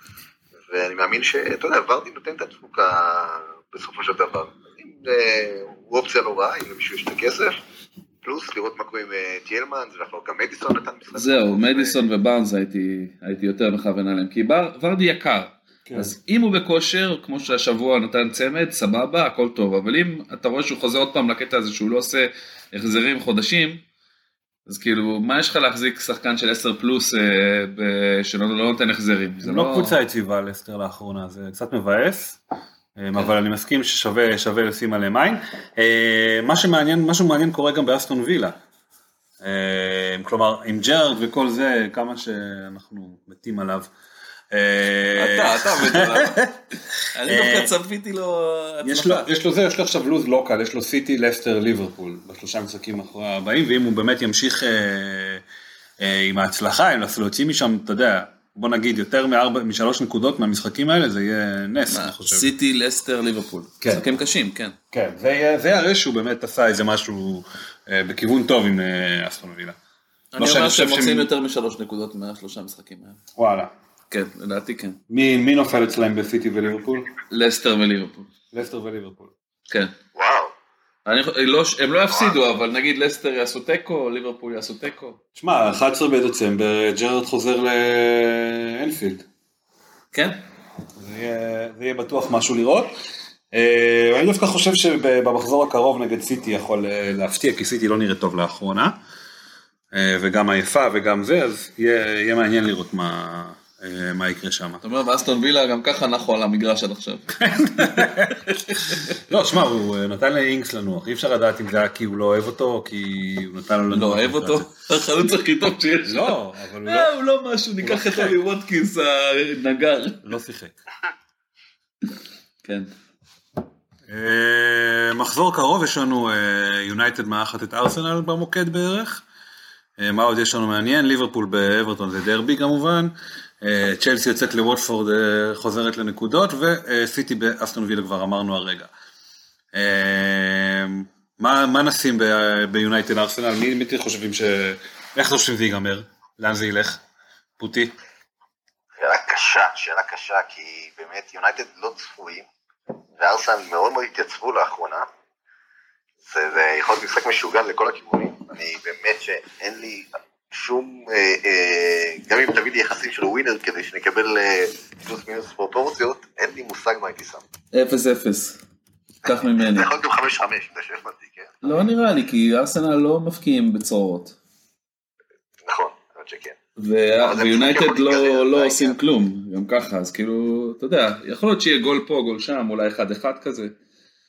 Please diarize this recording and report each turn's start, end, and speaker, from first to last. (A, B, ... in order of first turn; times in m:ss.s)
0:00.7-0:07.6 A
0:08.2-0:12.0 A
0:11.1-0:23.8 B
0:15.8-0:16.1 C
0:24.7-0:30.0 B
0:29.4-0:32.4 C
0:33.0-0:38.6 C
0:39.4-0:43.9 C
0:44.5-0:46.6 C
0:45.2-0:46.4 B
0:47.1-0:49.3 B
0:47.2-0:47.7 C
0:48.8-0:55.4 C
0:56.0-1:02.4 C
1:01.9-1:04.8 B
1:04.9-1:09.8 C
1:10.3-1:13.2 B
1:10.4-1:11.3 C
1:13.4-1:13.7 C
1:14.1-1:15.0 B
1:15.1-1:17.1 C
1:17.3-1:18.3 B
1:18.5-1:19.3 C
1:20.1-1:20.5 A
1:21.0-1:25.2 B
1:25.4-1:29.2 C
1:30.1-1:30.4 B
1:31.0-1:33.0 C
1:33.5-1:39.0 C
1:39.9-1:44.8 C
1:44.8-1:49.1 B
1:47.4-1:54.7 C
1:53.9-2:00.2 B
1:56.0-1:57.1 C
1:57.8-1:58.4 C
2:00.2-2:00.8 C
2:02.6-2:02.9 B
2:04.1-2:09.2 C
2:10.0-2:18.9 C
2:19.7-2:27.0 C
2:27.6-2:27.9 C
2:29.0-2:32.5 A
2:33.2-2:35.1 A
2:36.2-2:47.4 A
2:47.7-2:48.6 B
2:49.2-2:49.9 B
2:49.2-2:51.6 A
2:51.6-2:54.4 B
2:55.6-2:56.6 A
2:56.8-3:03.7 B
2:57.2-2:59.0 A